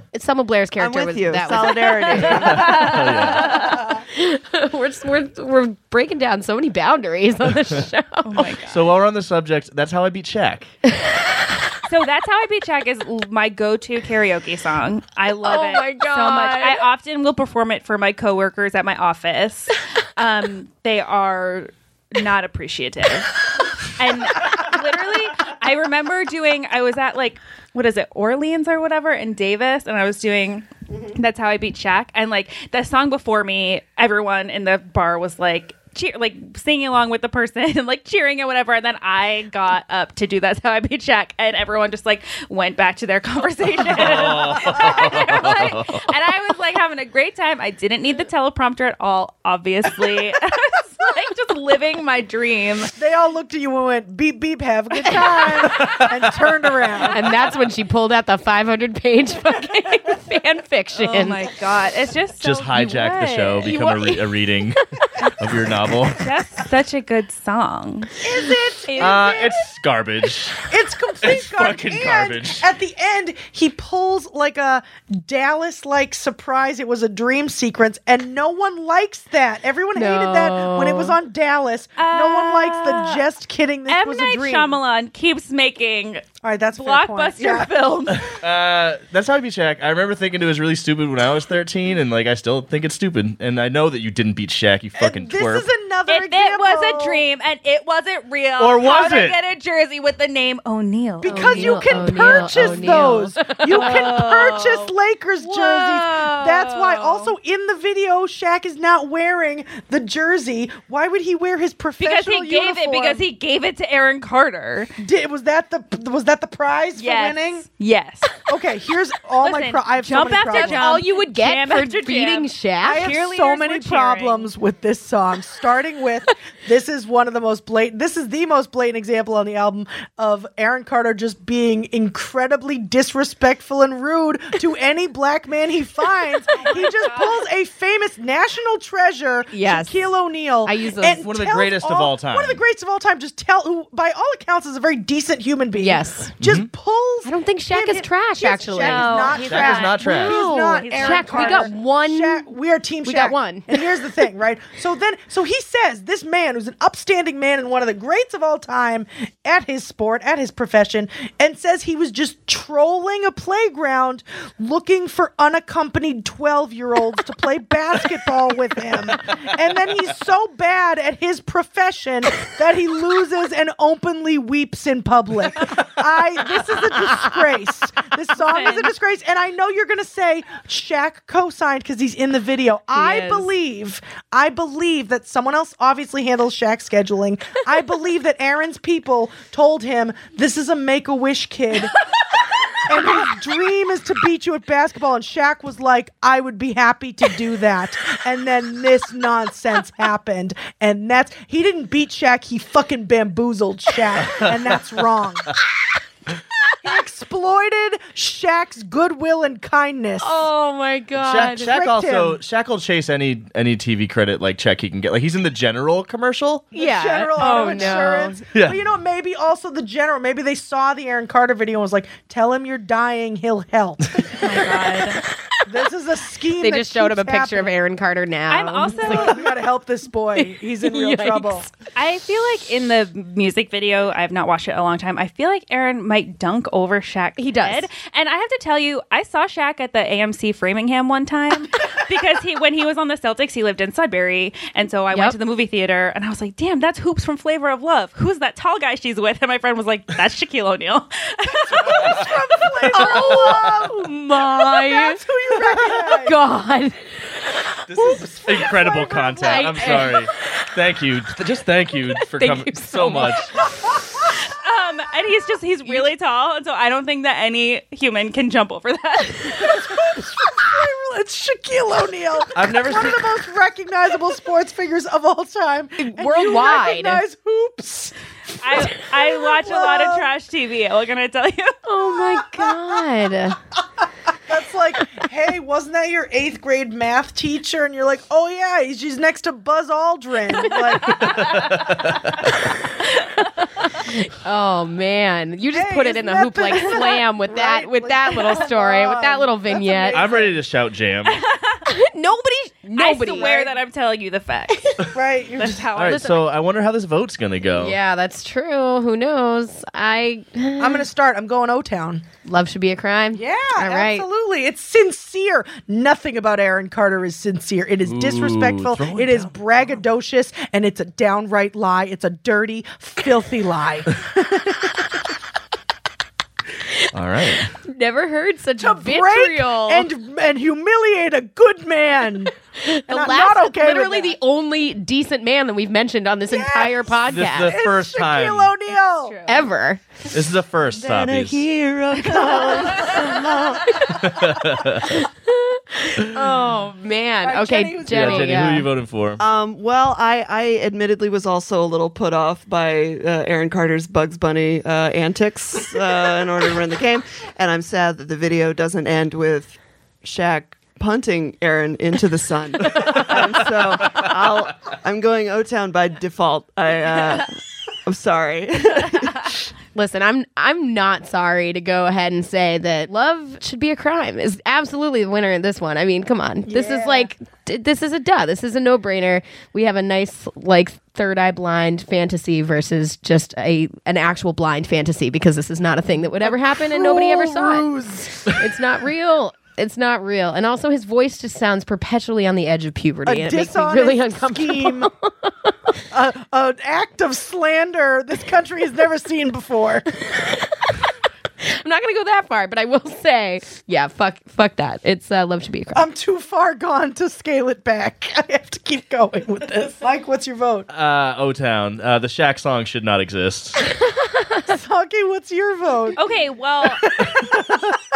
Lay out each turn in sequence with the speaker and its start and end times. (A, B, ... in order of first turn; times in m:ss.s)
0:00.1-0:08.5 A
0:00.8-0:02.9 B
0:01.6-0:03.9 C
0:02.3-0:03.6 D
0:08.2-0:08.8 C
0:08.7-0:10.7 D
0:11.8-0:52.9 C
0:15.4-0:16.9 A
0:43.9-0:46.0 D
0:44.8-0:45.2 E
0:53.0-0:57.3 E
0:55.7-0:56.0 D
0:57.1-1:01.4 A
1:00.9-1:03.7 C
1:02.4-1:04.8 D
1:03.6-1:05.3 A
1:05.4-1:06.2 D
1:06.2-1:08.1 C
1:08.2-1:09.5 E
1:08.8-1:09.4 C
1:09.0-1:10.7 D
1:10.7-1:24.8 E
1:11.2-1:12.6 D
1:19.9-1:21.2 A
1:22.0-1:23.2 C
1:23.9-1:28.3 C
1:26.4-1:27.7 E
1:28.1-1:35.7 D
1:35.0-1:37.2 E
1:36.1-1:43.0 C
1:38.6-1:39.4 D
1:41.2-1:53.2 E
1:41.2-1:44.1 A
1:43.6-1:47.3 C
1:52.0-1:54.9 C
1:55.0-1:57.6 E
1:57.0-1:58.4 C
1:58.4-2:00.8 E
1:59.4-2:04.5 C
2:00.5-2:03.1 A
2:02.8-3:12.0 E
2:16.5-2:17.4 C
2:19.5-2:20.1 A
2:20.6-2:21.2 A
2:21.2-2:22.6 D
2:25.8-2:26.3 A
2:26.4-2:26.7 D
2:27.2-2:29.4 A
2:28.8-2:31.7 C
2:29.5-2:30.4 D
2:30.0-2:32.4 A
2:33.0-2:33.8 A
2:58.4-2:58.9 C
3:02.9-3:03.5 A
3:12.8-3:25.5 E
3:26.8-3:30.5 E
3:30.2-3:31.7 A
3:31.2-3:36.7 D
3:31.5-3:32.4 E
3:36.7-3:44.6 E
3:36.7-3:38.4 A
3:37.6-3:38.8 D
3:44.4-3:45.2 C
3:45.6-3:47.7 E
3:46.6-3:49.5 A
3:48.5-3:49.4 C
3:48.9-3:51.7 E
3:50.3-3:51.7 A
3:51.9-4:12.2 C
3:57.4-3:57.9 A
4:11.7-4:16.4 E
4:11.8-4:12.3 D
4:12.8-4:13.8 D
4:12.9-4:17.0 A
4:17.9-4:23.5 D
4:17.9-4:20.0 E
4:19.4-4:20.3 A
4:22.1-4:23.4 A
4:24.4-4:29.8 C
4:29.6-4:38.1 E
4:32.5-4:33.2 D
4:36.0-4:37.2 A
4:38.6-4:41.8 C
4:38.8-4:40.3 E
4:41.8-4:43.6 A
4:42.2-4:43.0 E
4:44.5-4:51.7 E
4:51.2-4:52.4 D
4:53.1-4:53.5 C
4:54.0-5:00.3 A
4:55.7-5:00.6 E
5:00.1-5:01.4 D
5:01.3-5:01.8 C
5:01.8-5:03.6 A
5:02.9-5:06.4 C
5:03.3-5:03.8 E
5:05.1-5:05.9 E
5:06.0-5:08.0 D
5:06.1-5:06.4 A
5:07.7-5:11.1 A
5:10.8-5:12.2 E
5:12.4-5:14.2 A
5:13.3-5:24.9 E
5:18.0-5:19.6 D
5:27.1-5:27.7 D
5:27.7-5:30.1 A
5:28.8-5:32.5 E
5:32.8-5:37.8 A
5:33.1-5:34.3 E
5:36.5-5:39.4 E
5:37.3-5:38.7 D
5:39.2-5:39.6 C
5:39.5-5:40.0 A
5:40.3-5:41.6 D
5:40.9-5:44.0 B
5:42.9-5:44.4 A
5:44.1-5:45.2 D
5:45.0-5:48.9 A
5:47.4-5:48.7 E
5:48.1-5:49.4 D
5:49.4-6:07.5 B
6:02.9-6:03.3 D
6:08.0-6:09.7 B
6:09.9-6:27.9 A
6:16.6-6:17.3 E
6:26.4-6:28.5 E
6:28.4-6:35.7 A
6:33.2-6:35.1 E
6:36.1-6:40.1 E
6:40.2-6:41.0 A
6:41.6-6:46.1 A
6:45.9-6:50.9 E
6:50.9-6:53.9 D
6:54.6-6:56.2 E
6:56.2-6:57.1 C
6:56.8-6:58.0 E